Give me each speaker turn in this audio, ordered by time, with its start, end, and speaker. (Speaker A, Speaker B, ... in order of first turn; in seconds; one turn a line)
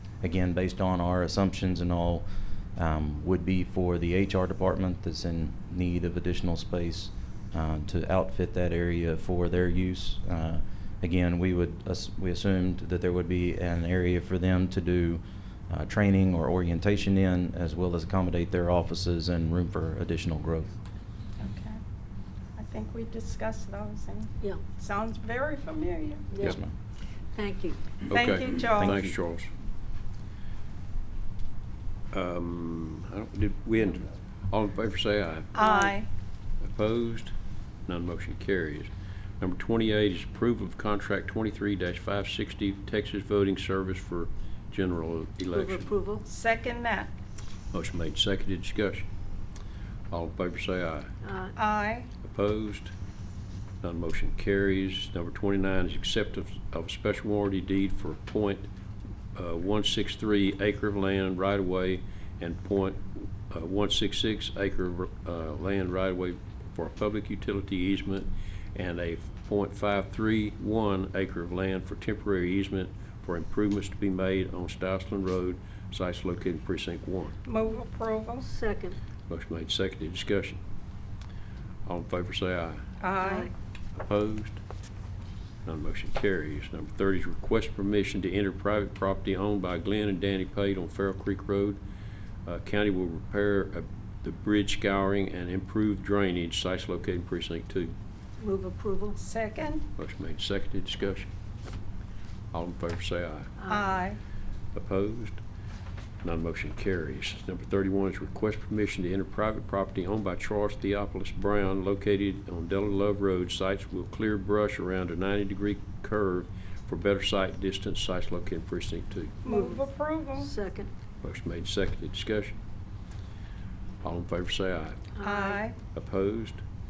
Speaker A: 0.2-20.8
Speaker B: 21.4-21.8
Speaker B: 22.6-26.3
Speaker C: 26.3-26.6
Speaker A: 26.4-26.7
Speaker C: 27.4-28.0
Speaker D: 28.1-29.5
Speaker B: 28.1-29.0
Speaker A: 28.8-29.2
Speaker D: 32.1-35.5
Speaker B: 35.5-36.1
Speaker C: 35.6-36.0
Speaker D: 36.6-37.3
Speaker D: 37.9-45.9
Speaker C: 45.5-46.2
Speaker B: 46.3-47.1
Speaker D: 47.7-49.1
Speaker D: 50.1-51.1
Speaker C: 51.2-51.5
Speaker B: 51.6-52.1
Speaker D: 52.2-52.9
Speaker D: 53.8-58.7
Speaker D: 59.4-77.4
Speaker B: 77.5-78.5
Speaker C: 78.4-79.0
Speaker D: 79.3-80.6
Speaker D: 81.8-82.8
Speaker B: 83.0-83.5
Speaker C: 83.2-83.5
Speaker D: 84.0-84.6
Speaker D: 85.7-91.8
Speaker D: 92.5-97.9
Speaker C: 98.4-99.2
Speaker B: 99.2-99.8
Speaker D: 100.0-101.3
Speaker D: 102.5-103.5
Speaker C: 103.6-104.0
Speaker B: 103.7-104.2
Speaker D: 104.7-105.4
Speaker D: 106.2-119.4
Speaker B: 119.4-120.5
Speaker C: 119.5-119.9
Speaker C: 120.4-120.9
Speaker D: 121.2-122.6
Speaker D: 124.0-125.1
Speaker C: 125.1-125.7
Speaker B: 125.2-125.8
Speaker D: 125.9-126.6